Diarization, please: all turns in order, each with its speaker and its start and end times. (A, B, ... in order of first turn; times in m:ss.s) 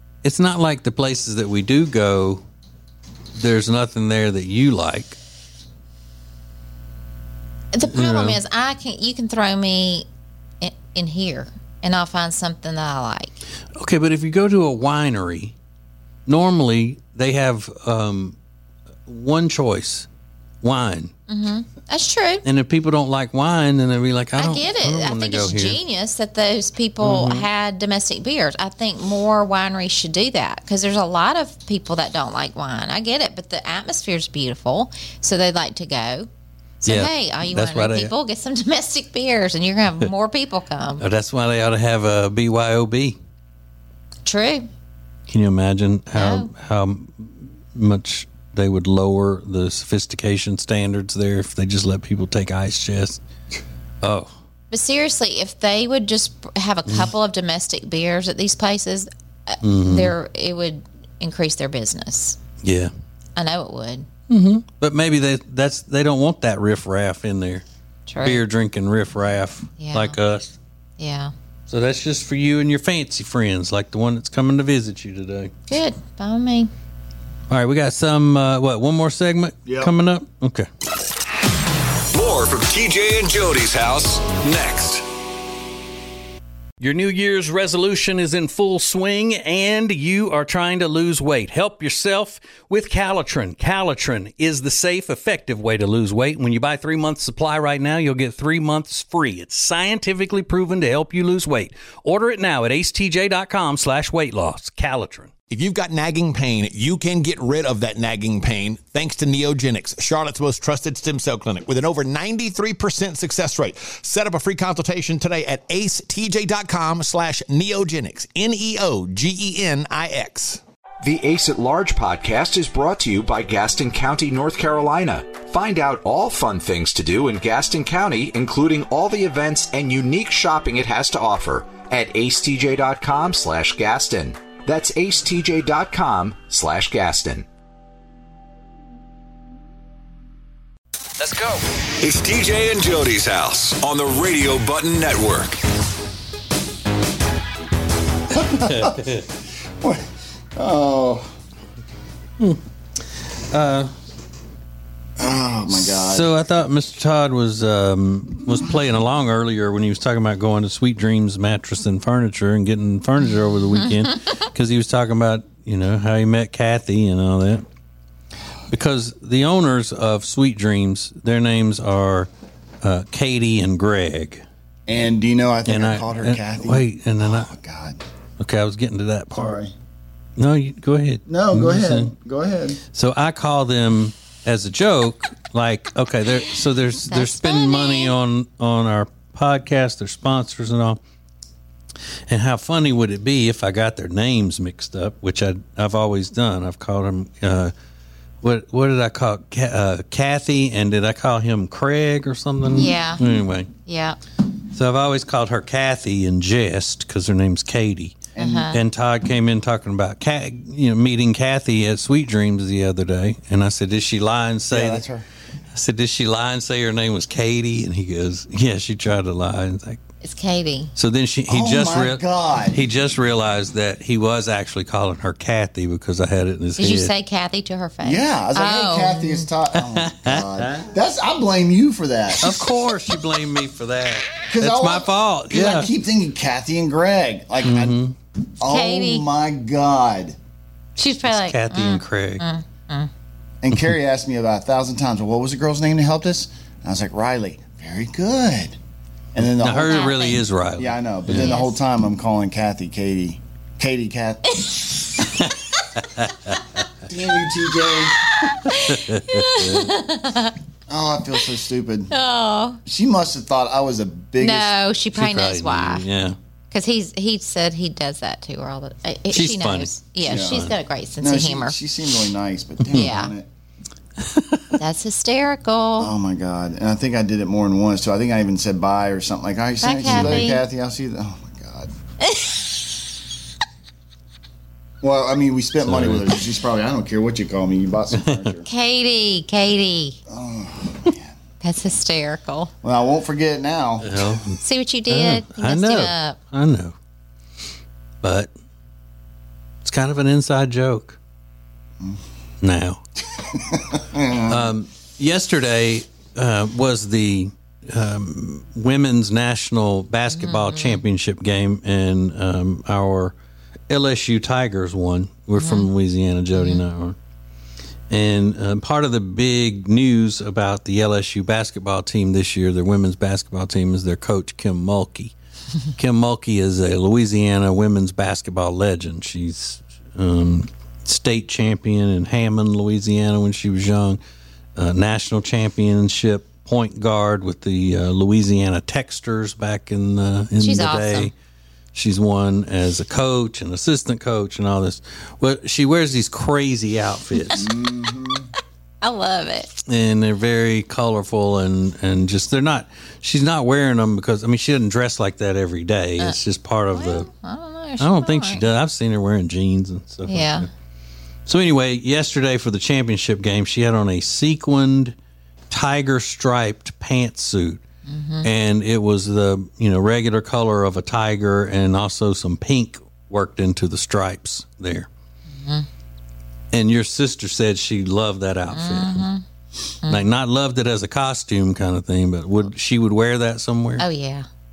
0:00.2-0:02.4 A
0:03.4-0:05.2 A
0:07.7-0:10.1 B
0:07.9-0:08.4 A
0:10.6-0:13.3 B
0:13.8-0:15.5 A
0:16.3-0:18.4 A
0:19.1-0:20.1 A
0:20.6-0:21.1 A
0:21.3-0:22.4 B
0:22.4-0:25.8 A
0:24.4-0:36.3 B
0:27.0-0:27.5 A
0:36.8-0:41.0 B
0:36.9-0:38.1 A
0:41.0-0:43.2 A
0:44.3-0:44.7 B
0:45.3-0:53.2 A
0:46.2-0:46.5 B
0:54.0-0:54.3 A
0:54.7-1:02.4 B
0:59.6-1:00.2 A
1:02.6-1:02.9 A
1:03.4-1:04.1 B
1:04.3-1:07.6 A
1:08.1-1:08.4 B
1:08.2-1:10.5 A
1:09.8-1:10.2 B
1:11.0-1:11.3 B
1:11.7-1:15.5 A
1:15.7-1:16.7 B
1:17.5-1:20.7 A
1:19.7-1:19.9 C
1:22.1-1:25.0 D
1:26.8-1:45.3 A
1:45.5-2:00.6 E
2:01.0-2:17.5 F
2:21.2-2:25.6 D
2:28.3-2:29.0 C
2:28.4-2:29.3 A
2:29.8-2:31.3 C
2:32.4-2:33.9 A
2:35.2-2:36.3 C
2:35.7-2:47.6 A
2:43.8-2:44.2 B
2:48.7-2:52.3 A
2:52.8-2:54.4 A
2:54.9-2:58.0 C
2:55.7-2:57.5 A
2:58.4-2:59.6 A
2:59.3-2:59.7 C
3:00.4-3:02.1 A
3:01.3-3:02.8 C
3:02.9-3:11.0 A
3:07.1-3:08.1 B
3:12.3-3:17.7 A
3:18.4-3:23.7 A
3:22.7-3:23.2 B
3:23.8-3:24.2 B
3:24.7-3:35.0 A
3:28.4-3:28.7 C
3:28.4-3:28.8 B
3:34.7-3:35.2 C
3:35.7-3:40.0 A
3:40.2-3:40.9 B
3:41.0-3:47.1 A
3:41.5-3:42.8 C
3:46.8-3:49.5 B
3:48.0-3:52.6 C
3:49.7-3:50.9 A
3:52.4-3:55.9 A
3:54.5-3:58.0 C
3:57.6-3:58.2 A
3:58.6-4:00.4 C
3:58.7-3:59.3 B
4:01.0-4:03.1 B
4:01.2-4:02.4 A
4:03.6-4:08.8 C
4:09.3-4:10.2 C
4:09.4-4:11.6 A
4:09.8-4:10.4 B
4:10.8-4:14.6 C
4:11.4-4:11.8 B
4:16.2-4:16.6 A
4:17.0-4:18.2 C
4:18.4-4:20.6 B
4:18.7-4:19.9 A
4:20.9-4:22.1 C
4:22.1-4:22.8 B
4:22.8-4:24.7 C
4:24.4-4:26.0 B
4:25.1-4:26.4 A
4:26.7-4:31.8 B
4:29.3-4:30.7 A
4:30.2-4:30.6 C
4:31.2-4:33.5 C
4:32.8-4:33.1 A
4:32.9-4:33.3 B
4:34.2-4:34.7 A
4:34.7-4:36.1 B
4:36.0-4:41.9 C
4:39.8-4:40.6 B
4:40.1-4:40.5 A
4:42.2-4:42.7 B
4:45.0-4:48.7 C
4:45.8-4:46.4 A
4:48.1-4:48.5 A
4:48.7-4:50.2 B
4:50.3-4:51.3 C
4:51.6-4:52.7 B
4:52.8-4:54.4 C
4:54.0-4:57.0 A
4:54.6-4:56.4 B
4:58.2-4:58.5 A
4:59.8-5:01.2 A
5:02.6-5:03.0 A
5:03.6-5:04.7 C
5:04.4-5:13.3 A
5:10.3-5:11.0 B
5:13.9-5:17.2 A
5:15.6-5:15.9 B
5:16.5-5:16.8 B
5:18.1-5:25.3 A
5:26.0-5:34.2 A
5:34.8-5:41.3 A
5:40.6-5:41.3 B
5:41.9-5:47.7 A
5:47.5-5:48.5 C
5:49.0-5:49.8 B
5:49.9-5:57.3 A
5:56.9-5:58.6 B
5:58.0-6:00.7 A
6:00.3-6:00.7 B
6:01.5-6:05.2 A
6:05.7-6:07.8 A
6:08.1-6:08.5 B
6:08.4-6:15.1 A
6:15.5-6:15.9 B
6:16.7-6:19.3 A
6:18.7-6:19.4 B
6:20.1-6:24.0 A
6:24.0-6:24.5 B